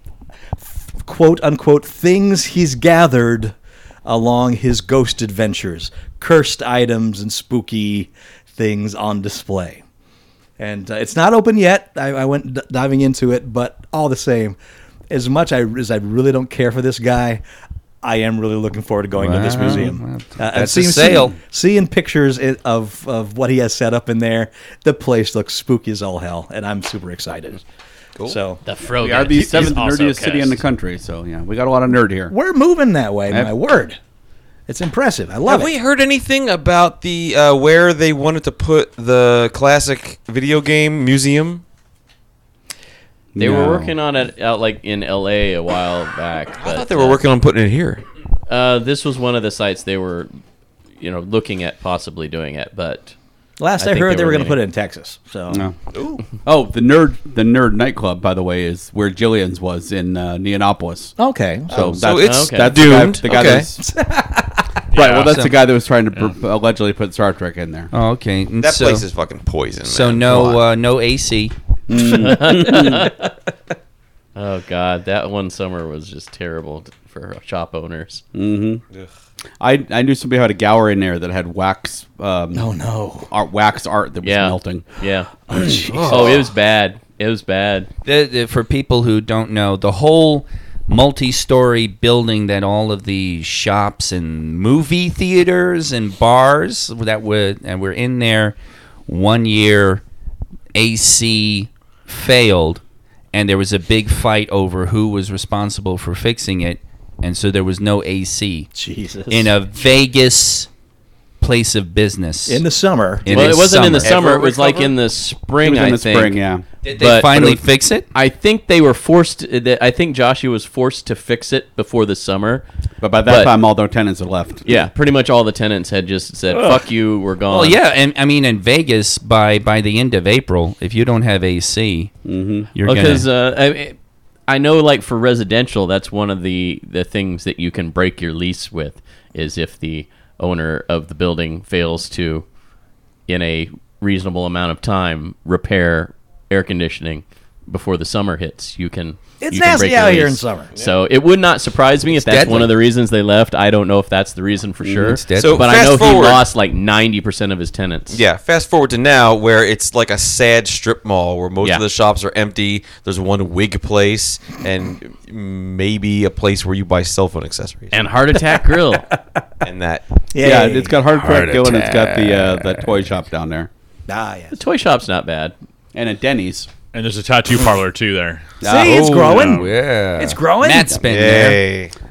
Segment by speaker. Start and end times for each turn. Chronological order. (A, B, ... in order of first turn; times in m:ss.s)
0:00.6-0:09.8 A
0:10.6-0:14.6 A
0:15.1-0:17.4 A
0:18.0-0:27.6 A
0:19.2-0:21.4 B
0:28.2-0:28.6 A
0:28.6-0:30.6 C
0:29.0-0:32.3 D
0:29.3-0:29.9 E
0:32.3-0:34.0 A
0:34.7-0:35.7 A
0:35.5-0:41.6 F
0:43.3-0:43.9 D
0:43.4-0:47.2 C
0:46.6-0:48.0 F
0:48.5-0:50.3 C
0:51.0-0:53.1 C
0:53.6-0:55.6 A
0:53.8-0:54.6 C
0:55.5-0:55.7 D
0:55.9-0:56.2 F
0:56.4-1:01.1 D
1:01.2-1:01.8 A
1:01.7-1:03.7 F
1:01.7-1:03.8 D
1:02.1-1:02.8 C
1:03.8-1:04.6 A
1:04.9-1:05.5 E
1:04.9-1:07.9 D
1:05.1-1:05.6 B
1:07.9-1:09.0 B
1:08.6-1:10.6 F
1:09.8-1:11.5 B
1:11.9-1:13.1 D
1:11.9-1:13.3 C
1:14.3-1:18.2 C
1:18.3-1:18.8 D
1:19.6-1:22.7 D
1:22.5-1:23.3 A
1:23.3-1:24.8 D
1:24.2-1:27.9 C
1:25.5-1:26.4 A
1:25.9-1:26.4 F
1:28.0-1:40.0 B
1:40.7-1:42.8 B
1:43.3-1:48.7 B
1:48.7-1:49.5 A
1:49.3-1:50.7 B
1:51.4-1:52.6 B
1:52.5-1:53.5 A
1:53.2-1:54.1 B
1:53.3-1:57.6 C
1:54.0-1:54.9 F
1:55.6-1:56.6 D
1:56.8-1:58.1 B
1:58.1-2:02.6 C
2:03.0-2:04.7 D
2:03.2-2:03.5 C
2:04.6-2:07.8 C
2:07.5-2:12.1 B
2:12.2-2:12.7 D
2:12.7-2:13.3 B
2:12.8-2:14.0 C
2:14.5-2:22.4 C
2:23.3-2:38.2 C
2:29.4-2:30.7 A
2:32.1-2:32.7 B
2:34.8-2:35.2 D
2:35.0-2:35.7 B
2:35.4-2:36.4 F
2:38.1-2:48.0 F
2:47.9-2:49.1 C
2:49.0-2:49.4 A
2:49.6-2:50.0 F
2:50.3-2:51.0 A
2:50.4-2:53.7 D
2:51.1-2:53.0 B
2:54.1-2:54.6 A
2:54.5-2:55.5 C
2:55.9-2:56.7 D
2:56.9-2:59.7 E
2:58.6-2:59.0 D
2:58.6-3:01.0 A
2:59.0-3:01.6 B
3:01.1-3:01.9 F